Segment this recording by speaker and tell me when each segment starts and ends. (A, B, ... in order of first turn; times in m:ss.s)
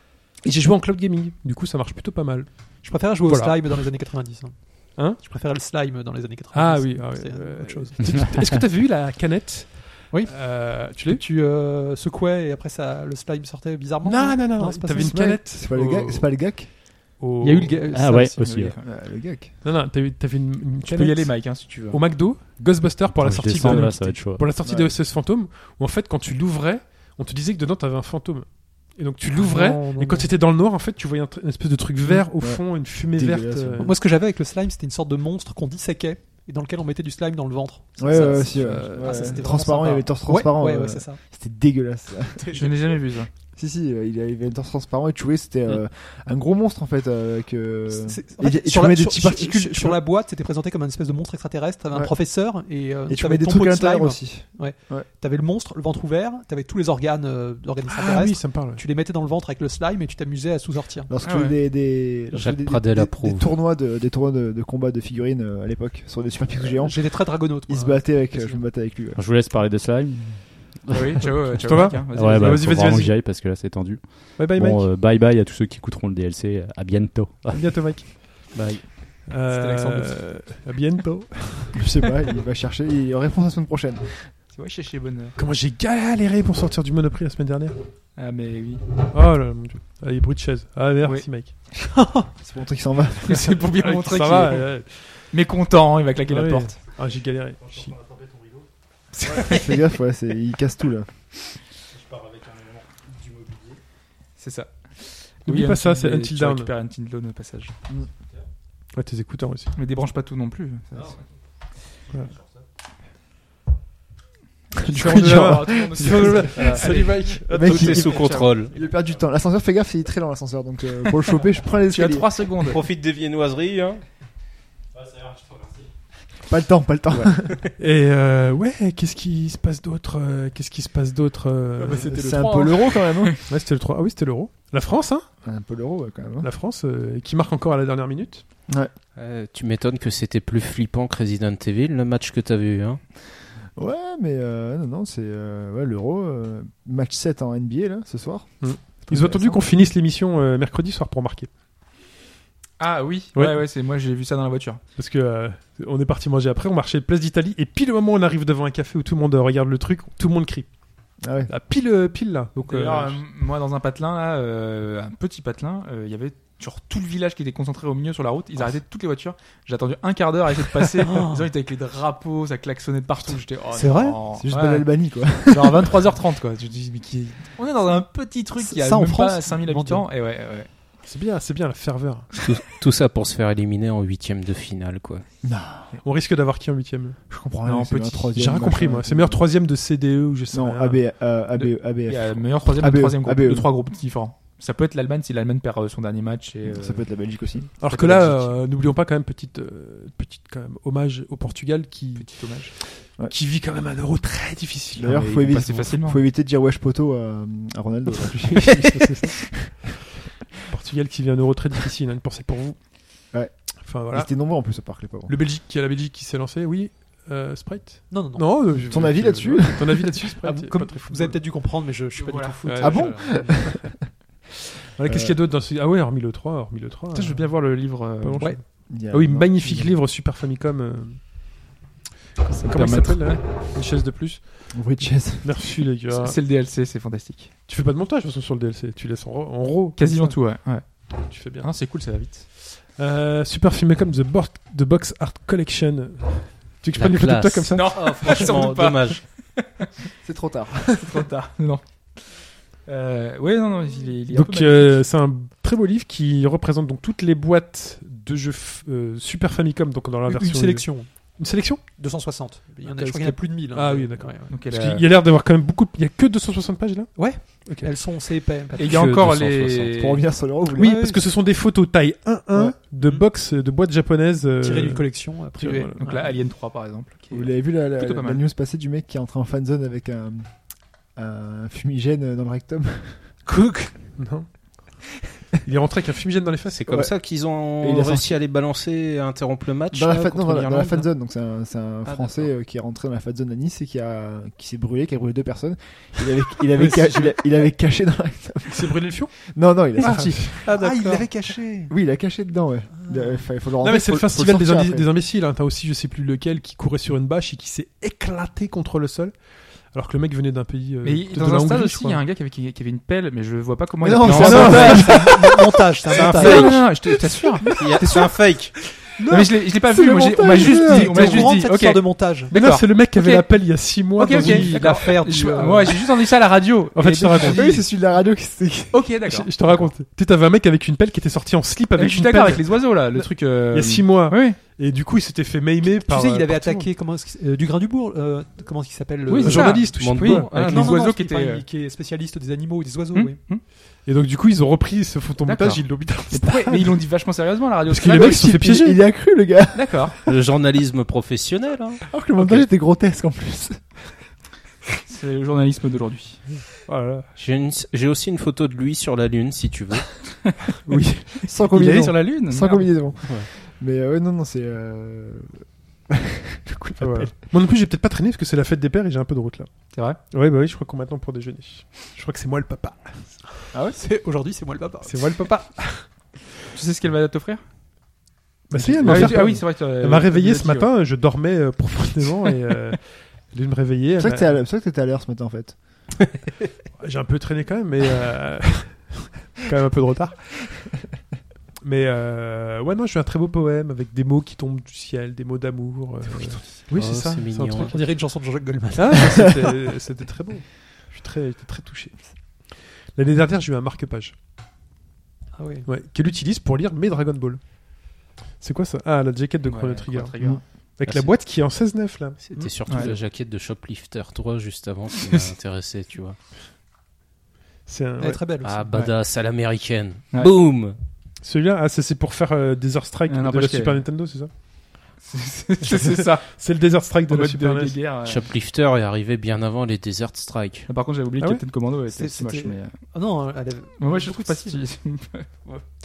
0:00.4-0:03.8 A
0:02.8-0:08.0 B
0:04.9-0:05.2 A
0:06.5-0:11.2 A
0:10.1-0:15.4 B
0:14.0-0:16.6 A
0:15.0-0:16.8 C
0:17.2-0:18.0 A
0:17.4-0:18.7 B
0:17.9-0:18.8 D
0:18.5-0:19.6 C
0:19.6-0:34.0 A
0:20.8-0:22.0 E
0:23.2-0:24.6 D
0:24.6-0:25.0 C
0:29.3-0:30.3 B
0:32.3-0:34.0 C
0:33.8-0:41.2 B
0:38.0-0:42.5 C
0:42.4-0:43.0 B
0:42.5-0:43.3 E
0:43.5-0:50.0 C
0:47.8-1:01.1 B
0:53.0-0:55.1 C
0:57.8-0:58.8 A
1:01.1-1:09.2 C
1:01.2-1:01.6 E
1:02.3-1:03.6 F
1:06.5-1:08.7 B
1:09.1-1:17.7 D
1:10.9-1:12.6 E
1:11.5-1:13.2 A
1:14.4-1:14.9 A
1:17.5-1:18.3 A
1:18.5-1:18.8 F
1:19.2-1:21.8 A
1:19.5-1:20.2 B
1:21.7-1:24.3 C
1:24.5-1:25.4 E
1:25.4-1:27.8 A
1:28.2-1:28.8 E
1:29.1-1:31.6 A
1:31.0-1:31.3 E
1:31.7-1:32.3 B
1:32.4-1:33.6 C
1:33.2-1:36.8 E
1:33.7-1:35.2 A
1:36.3-1:38.0 A
1:39.1-1:39.8 E
1:39.3-1:41.1 C
1:44.4-1:47.7 E
1:45.4-1:46.7 A
1:48.9-1:49.7 A
1:49.7-1:51.3 E
1:54.8-1:56.4 C
1:54.8-1:58.5 E
1:54.9-1:58.2 A
1:56.7-1:58.7 F
1:57.5-2:02.2 C
2:01.9-2:02.8 E
2:02.6-2:04.0 F
2:06.4-2:07.6 C
2:07.8-2:12.2 A
2:11.8-2:13.4 E
2:11.8-2:13.4 C
2:13.5-2:15.2 A
2:15.4-2:16.5 C
2:16.4-2:18.4 A
2:19.2-2:23.0 F
2:23.8-2:29.6 C
2:28.6-2:31.5 A
2:32.8-2:34.8 E
2:33.3-2:33.6 A
2:35.0-2:40.7 A
2:41.2-2:41.5 C
2:41.5-2:43.2 A
2:42.6-3:00.7 E
2:51.0-2:51.5 B
2:53.7-2:54.2 B
2:54.3-2:55.9 C
2:58.6-3:00.1 B
3:01.0-3:02.3 A
3:02.3-3:05.2 F
3:05.4-3:05.9 C
3:06.0-3:07.2 A
3:07.3-3:09.4 C
3:07.6-3:08.3 E
3:08.3-3:11.2 A
3:10.5-3:13.7 C
3:11.5-3:18.6 E
3:16.6-3:17.7 C
3:17.8-3:25.1 A
3:22.1-3:22.7 E
3:25.0-3:29.3 C
3:25.0-3:26.2 E
3:28.2-3:29.9 A
3:30.7-3:34.3 A
3:33.3-3:35.4 C
3:35.3-3:41.4 A
3:38.1-3:38.9 B
3:38.8-3:40.1 C
3:40.4-3:43.7 B
3:42.2-3:42.7 E
3:42.6-3:43.3 A
3:42.8-3:44.0 C
3:45.0-3:51.6 A
3:45.0-3:45.4 C
3:47.1-3:48.6 E
3:48.4-3:48.7 B
3:48.9-3:50.0 C
3:52.4-3:53.4 E
3:52.6-3:56.4 A
3:54.7-3:55.6 C
3:56.1-3:57.5 E
3:57.7-4:00.6 A
4:00.0-4:02.5 E
4:01.1-4:01.8 A
4:02.8-4:08.5 A
4:06.9-4:09.2 F
4:07.7-4:09.8 E
4:10.2-4:11.2 C
4:11.0-4:15.0 E
4:14.3-4:21.9 A
4:20.2-4:21.4 B
4:21.9-4:24.6 B
4:22.8-4:28.0 A
4:24.5-4:25.1 E
4:27.1-4:29.0 B
4:28.7-4:30.3 E
4:28.9-4:31.0 C
4:29.0-4:29.3 D
4:30.8-4:36.0 A
4:30.8-4:31.3 B
4:32.5-4:32.8 C
4:33.0-4:33.3 B
4:34.6-4:36.4 B
4:36.0-4:38.4 E
4:37.3-4:43.3 C
4:43.4-4:43.9 F
4:44.2-4:45.0 A
4:45.6-4:46.9 A
4:46.7-4:51.1 F
4:46.9-4:47.2 C
4:47.8-4:48.3 C
4:49.9-5:00.8 C
4:52.0-4:52.5 F
4:56.7-4:57.4 A
4:58.7-5:01.9 A
4:59.9-5:01.7 B
5:01.7-5:05.1 C
5:02.9-5:03.6 B
5:03.7-5:12.2 A
5:11.0-5:15.2 E
5:14.0-5:15.4 C
5:14.3-5:16.9 B
5:14.4-5:14.9 A
5:16.1-5:18.5 E
5:16.1-5:16.8 F
5:17.8-5:18.7 F
5:19.2-5:21.2 A
5:19.3-5:27.8 E
5:20.0-5:20.8 C
5:20.5-5:22.5 B
5:22.5-5:25.1 A
5:24.2-5:26.1 B
5:26.9-5:27.8 A
5:27.4-5:29.1 C
5:28.9-5:29.9 E
5:29.2-5:36.9 A
5:32.0-5:34.6 E
5:35.8-5:43.4 B
5:39.3-5:41.6 E
5:39.4-5:40.9 A
5:40.0-5:40.9 F
5:43.1-5:43.6 E
5:44.0-5:46.9 A
5:45.4-5:48.6 E
5:47.9-5:49.1 A
5:48.1-5:50.3 C
5:49.7-5:50.2 E
5:50.3-5:52.6 F
5:52.1-5:53.9 C
5:55.1-5:56.5 E
5:56.7-5:57.3 A
5:57.4-6:00.1 F
6:00.8-6:01.4 A
6:01.4-6:07.3 C
6:01.6-6:03.0 E
6:07.0-6:13.7 A
6:09.9-6:10.2 E
6:13.7-6:14.0 C
6:13.9-6:15.6 B
6:15.0-6:16.1 A
6:16.7-6:17.6 E
6:18.7-6:24.6 A
6:18.7-6:19.6 C
6:19.0-6:20.9 E
6:24.2-6:26.1 C
6:27.0-6:30.7 A
6:31.8-6:38.0 A
6:36.3-6:36.8 B
6:36.9-6:38.0 F
6:37.8-6:39.2 B
6:38.9-6:44.3 A
6:45.5-6:45.9 B
6:45.9-6:53.2 A
6:49.6-6:50.6 E
6:51.0-6:51.4 F
6:52.4-6:56.4 F
6:52.7-6:53.1 E
6:57.8-6:58.4 A
6:58.2-6:58.9 B
6:58.6-7:01.0 F
7:00.3-7:00.6 E
7:01.4-7:04.5 A
7:03.2-7:04.0 E
7:05.2-7:06.5 E
7:06.2-7:08.0 A
7:07.1-7:08.5 E
7:08.2-7:10.9 F
7:10.8-7:13.1 E
7:11.4-7:11.7 A
7:12.1-7:14.9 B
7:14.0-7:15.8 E